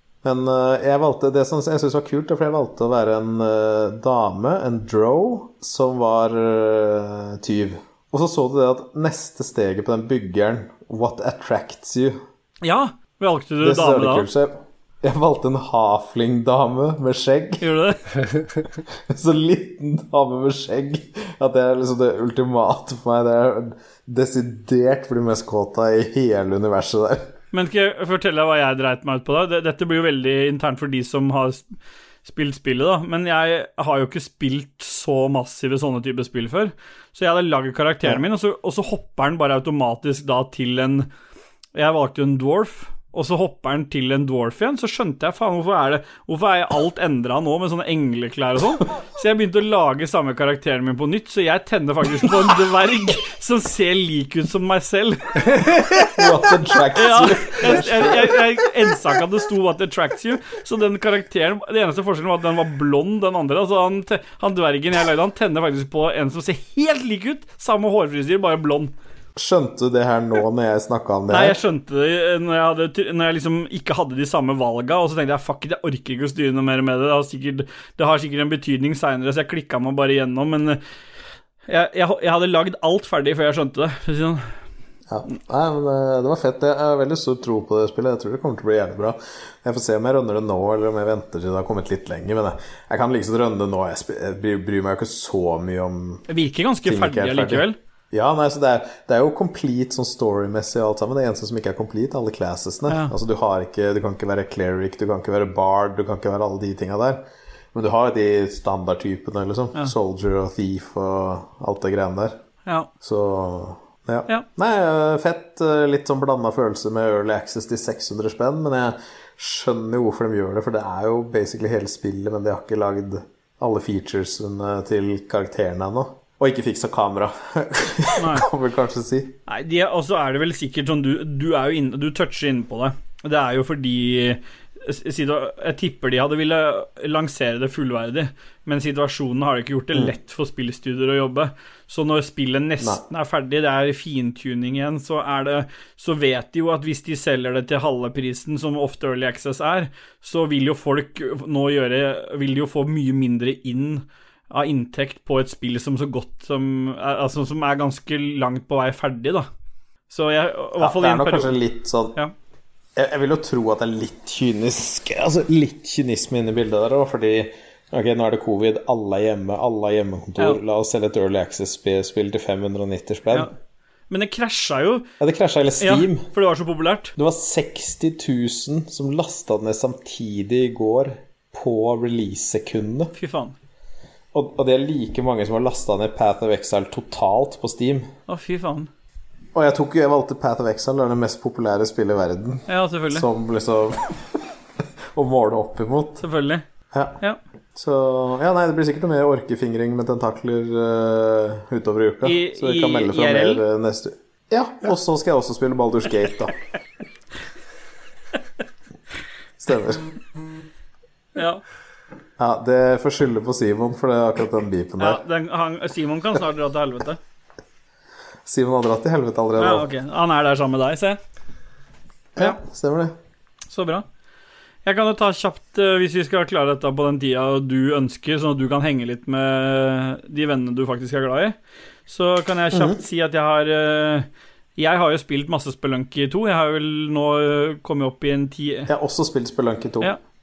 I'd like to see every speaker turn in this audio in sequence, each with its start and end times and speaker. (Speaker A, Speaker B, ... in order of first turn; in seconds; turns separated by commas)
Speaker A: 0.2-12.2, Speaker B: 12.6-14.3, Speaker A: 13.6-17.7, Speaker B: 17.6-18.1, Speaker A: 18.9-27.4, Speaker B: 27.5-31.7, Speaker B: 32.2-41.1, Speaker B: 41.8-56.1, Speaker A: 56.1-58.4, Speaker B: 56.9-68.9, Speaker A: 69.4-71.6, Speaker B: 71.3-80.8, Speaker B: 81.7-84.5, Speaker A: 85.1-96.3, Speaker B: 96.3-97.8, Speaker A: 96.8-112.4, Speaker A: 113.0-129.4, Speaker B: 128.2-128.5, Speaker B: 129.5-159.5, Speaker B: 160.1-161.6, Speaker A: 160.8-162.2, Speaker A: 163.0-173.5, Speaker B: 174.1-175.1, Speaker A: 175.2-176.3, Speaker B: 175.8-177.2, Speaker A: 177.2-183.1, Speaker B: 183.2-183.6, Speaker A: 184.3-188.1, Speaker B: 188.3-188.9, Speaker A: 189.6-194.4, Speaker B: 192.7-193.3, Speaker A: 195.1-196.2, Speaker B: 196.2-196.7, Speaker A: 196.9-197.2, Speaker A: 197.8-206.6, Speaker B: 202.2-203.6, Speaker A: 209.6-210.1, Speaker B: 211.4-211.6, Speaker A: 212.4-215.2, Speaker B: 215.0-217.2, Speaker A: 218.5-219.9, Speaker B: 219.6-221.2, Speaker A: 222.3-223.2, Speaker B: 223.7-224.1, Speaker B: 224.8-231.6, Speaker B: 232.1-238.9, Speaker A: 232.7-233.0, Speaker A: 238.9-240.1